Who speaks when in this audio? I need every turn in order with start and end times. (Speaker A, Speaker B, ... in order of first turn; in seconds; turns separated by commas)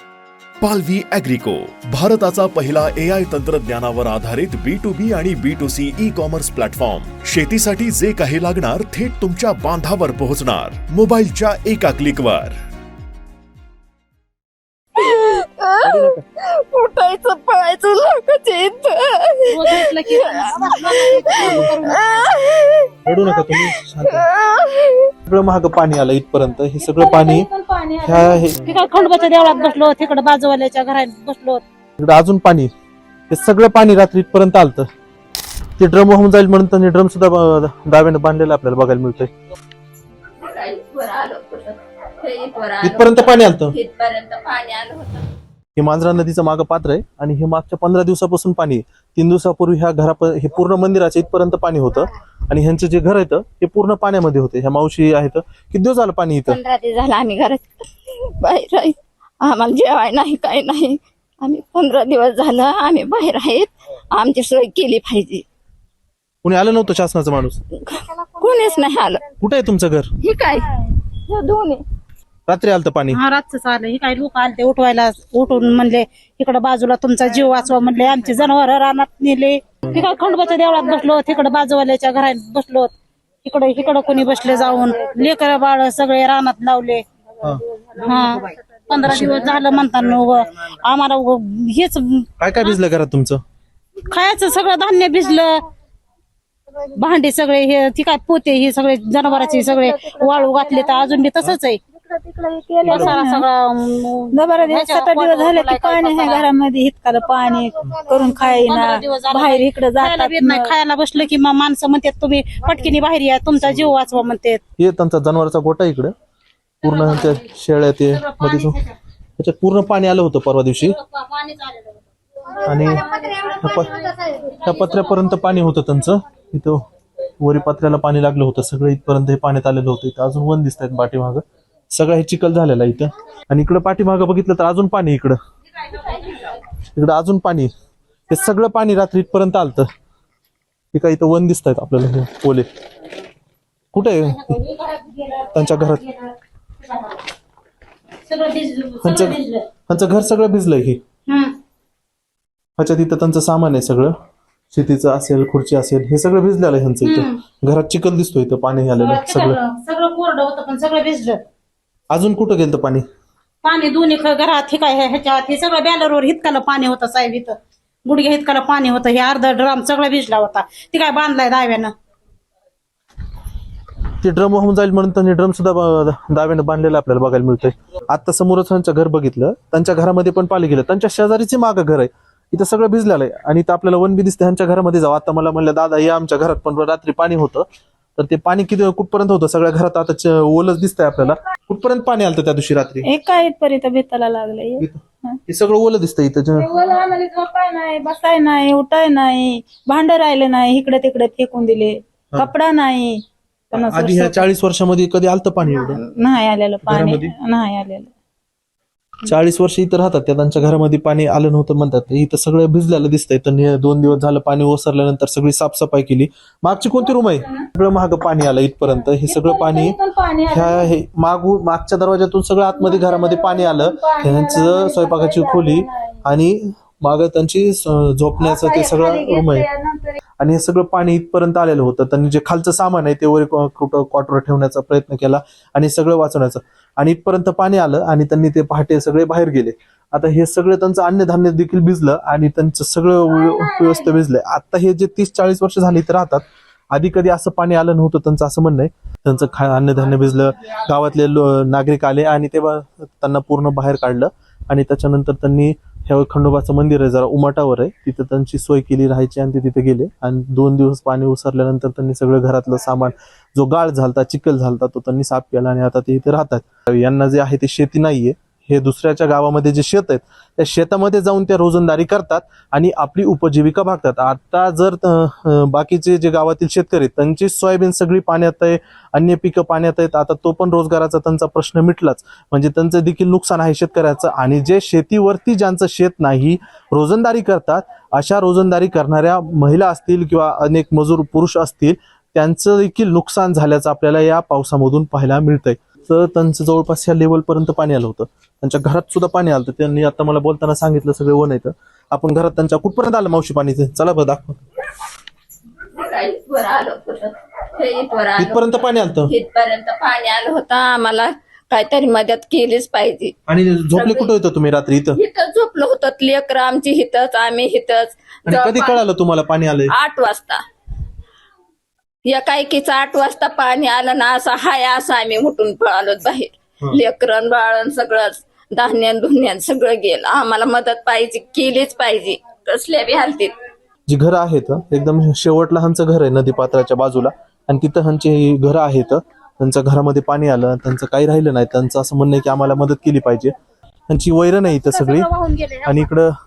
Speaker A: 0.6-12.6, Speaker B: 15.0-19.4, Speaker C: 15.8-16.2, Speaker D: 19.5-22.3, Speaker B: 20.1-25.1, Speaker C: 21.4-21.6, Speaker C: 23.1-24.3, Speaker C: 25.3-27.5, Speaker E: 26.8-29.8, Speaker C: 28.1-28.6, Speaker D: 28.6-31.6, Speaker C: 32.0-32.7, Speaker C: 33.3-34.9, Speaker C: 35.8-39.3, Speaker B: 40.4-45.3, Speaker C: 42.8-43.8, Speaker C: 45.8-56.6, Speaker B: 56.5-65.5, Speaker C: 66.4-67.6, Speaker B: 67.9-69.3, Speaker C: 69.4-70.1, Speaker B: 70.2-71.8, Speaker C: 72.5-73.2, Speaker D: 73.1-82.9, Speaker D: 83.4-87.0, Speaker D: 88.0-92.8, Speaker C: 89.0-89.3, Speaker C: 92.4-93.4, Speaker D: 94.1-95.6, Speaker D: 96.9-101.8, Speaker E: 99.3-101.0, Speaker E: 102.0-103.5, Speaker D: 102.8-106.5, Speaker C: 102.9-103.2, Speaker E: 104.3-110.7, Speaker D: 108.7-114.6, Speaker C: 114.8-116.1, Speaker D: 116.8-117.5, Speaker C: 116.8-118.8, Speaker D: 118.1-119.0, Speaker C: 119.4-121.0, Speaker D: 120.8-125.3, Speaker C: 122.7-123.1, Speaker C: 123.6-123.9, Speaker C: 124.7-126.9, Speaker C: 127.4-135.4, Speaker C: 136.8-137.7, Speaker C: 138.3-139.9, Speaker C: 140.9-142.7, Speaker C: 143.9-144.6, Speaker D: 144.0-147.3, Speaker C: 145.5-146.0, Speaker D: 148.3-149.7, Speaker C: 149.0-151.0, Speaker D: 151.3-151.6, Speaker C: 152.8-154.1, Speaker C: 154.7-159.6, Speaker D: 157.0-157.4, Speaker D: 159.0-161.4, Speaker C: 162.1-163.0, Speaker D: 163.6-171.9, Speaker C: 174.2-187.7, Speaker C: 188.2-193.1, Speaker E: 193.0-195.4, Speaker C: 194.8-196.7, Speaker E: 196.6-204.5, Speaker C: 203.7-206.0, Speaker E: 205.8-208.1, Speaker C: 206.8-207.3, Speaker C: 209.2-220.0, Speaker E: 218.9-220.9, Speaker C: 220.5-229.7, Speaker E: 222.8-226.3, Speaker E: 228.4-230.2, Speaker C: 230.4-304.6, Speaker B: 306.0-308.7, Speaker C: 308.4-309.3, Speaker B: 309.3-313.4, Speaker C: 313.5-315.2, Speaker B: 314.0-314.3, Speaker B: 315.2-319.0, Speaker C: 318.5-319.9, Speaker B: 319.9-320.6, Speaker B: 322.3-333.5, Speaker C: 334.1-343.6, Speaker C: 344.1-345.3, Speaker D: 344.9-346.1, Speaker C: 345.8-346.4